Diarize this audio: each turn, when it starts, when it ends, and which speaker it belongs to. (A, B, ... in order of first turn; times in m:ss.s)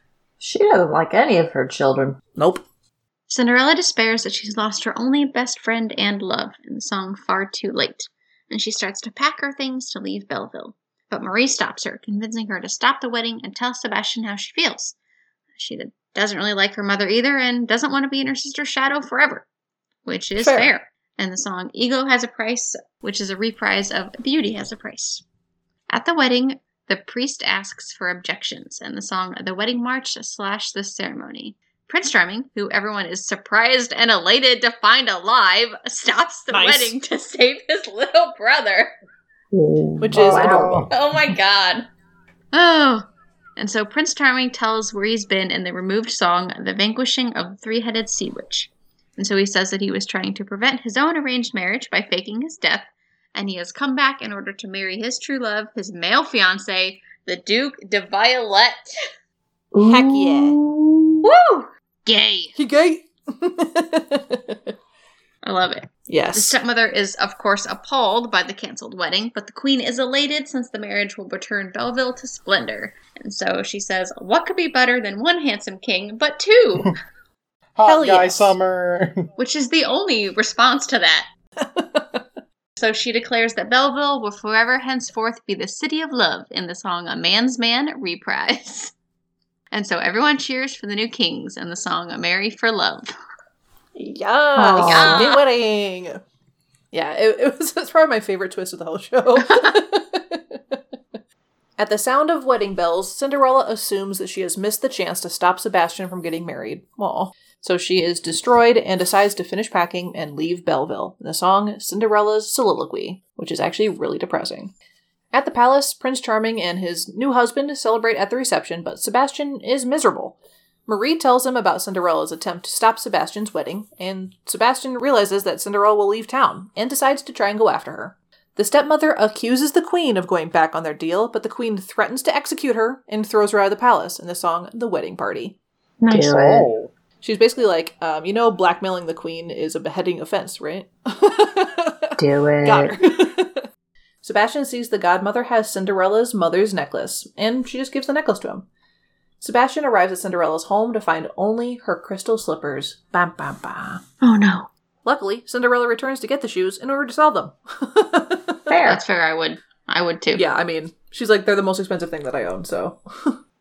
0:00.4-0:02.2 A
0:02.4-0:02.6 B
0:03.3-0:14.9 C
0:15.6-0:19.4 C
0:20.0-0:25.2 C
0:20.4-0:20.7 B
0:25.9-0:38.9 C
0:36.5-0:37.0 B
0:39.5-0:40.8 A
0:40.0-0:40.9 B
0:40.1-0:40.9 D
0:40.9-0:41.8 C
0:42.5-0:43.0 C
0:43.6-0:59.0 C
0:59.7-1:01.3 A
0:59.8-1:00.6 B
1:01.2-1:02.5 C
1:02.6-1:04.7 B
1:05.4-1:16.9 C
1:06.1-1:06.6 B
1:17.8-1:19.2 D
1:17.8-1:18.6 B
1:19.4-1:21.2 C
1:21.6-1:22.2 B
1:22.8-1:28.9 C
1:29.7-1:33.1 C
1:33.9-1:36.2 B
1:34.6-1:35.3 A
1:34.8-1:35.4 C
1:36.9-1:40.8 B
1:39.4-1:39.7 C
1:41.8-1:54.7 B
1:55.3-2:15.6 B
2:16.0-2:16.7 A
2:16.1-2:16.9 D
2:17.2-2:23.7 B
2:22.2-2:23.0 A
2:24.2-2:28.7 B
2:29.4-2:34.0 B
2:34.2-2:34.7 C
2:35.0-2:38.7 B
2:38.7-2:39.0 A
2:38.8-2:40.4 C
2:40.3-2:43.4 B